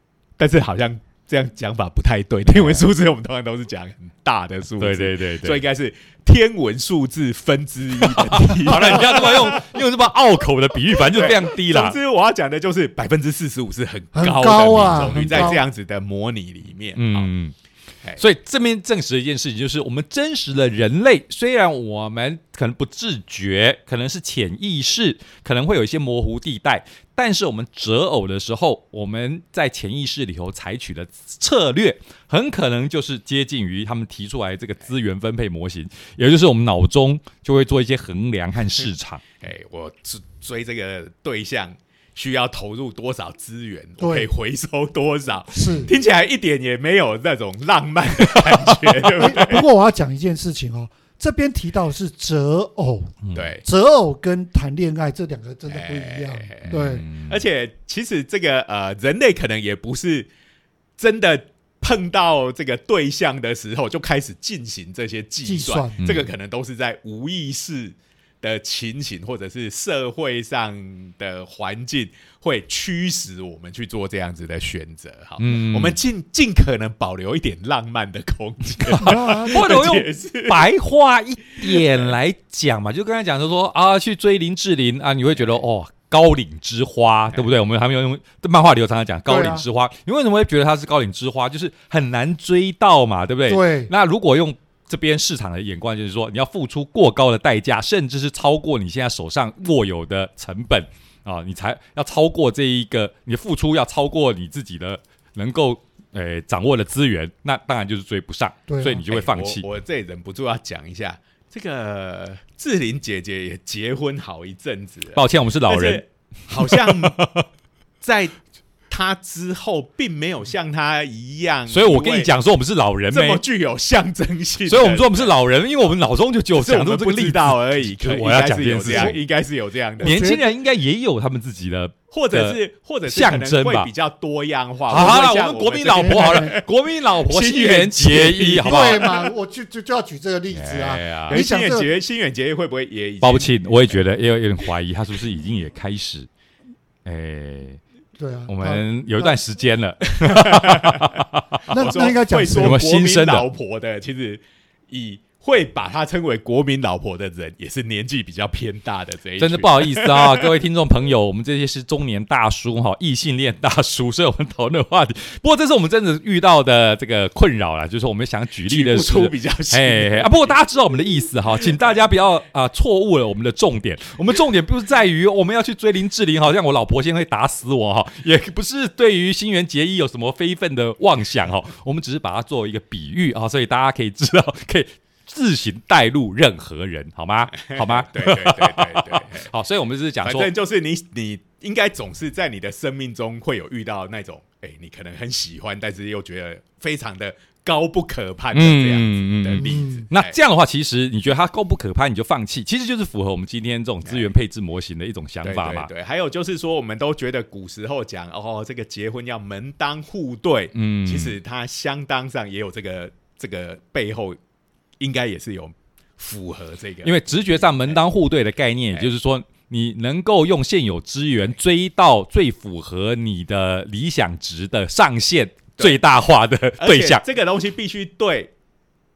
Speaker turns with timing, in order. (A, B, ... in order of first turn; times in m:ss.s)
0:00.4-0:09.8 A
0:02.5-0:02.8 B
0:04.8-0:05.6 B
0:08.0-0:12.0 B
0:11.0-0:17.3 A
0:14.1-0:15.6 C
0:15.1-0:15.5 B
0:17.0-0:17.6 B
0:18.2-0:39.2 B
0:39.4-0:49.7 A
0:44.0-0:44.3 C
0:45.5-0:45.9 C
0:48.5-0:48.9 B
0:49.2-0:57.0 C
0:53.4-0:53.6 A
0:55.7-1:00.3 A
0:56.7-0:57.4 B
1:01.0-1:20.6 A
1:05.4-1:06.0 C
1:06.0-1:06.3 B
1:15.4-1:16.0 B
1:18.8-1:49.6 B
1:19.0-1:19.7 C
1:21.6-1:22.1 A
1:29.3-1:29.6 C
1:33.5-1:33.9 C
1:48.7-1:49.0 C
1:49.1-1:57.2 A
1:55.1-1:57.5 B
1:58.0-1:58.4 A
1:58.9-2:02.3 A
2:01.7-2:03.4 B
2:03.1-2:05.3 A
2:04.7-2:09.2 B
2:06.6-2:10.2 A
2:10.0-2:10.4 C
2:10.0-2:13.9 B
2:12.1-2:16.7 A
2:14.9-2:19.1 B
2:16.0-2:16.6 C
2:17.3-2:19.3 A
2:18.6-2:21.9 C
2:20.6-2:24.0 A
2:21.0-2:21.4 B
2:23.2-2:26.3 B
2:27.0-2:27.8 B
2:28.2-2:29.4 C
2:28.5-2:31.6 B
2:30.1-2:31.1 A
2:31.7-2:32.8 C
2:31.7-2:40.5 A
2:32.6-2:33.4 B
2:39.4-3:10.5 B
2:48.7-2:50.5 A
3:07.6-3:09.5 A
3:10.2-3:20.4 A
3:18.5-3:25.9 B
3:19.6-3:20.0 C
3:24.0-3:24.3 A
3:25.4-3:34.4 A
3:30.7-3:31.4 B
3:35.0-3:38.0 A
3:37.0-3:47.2 B
3:46.8-3:48.5 A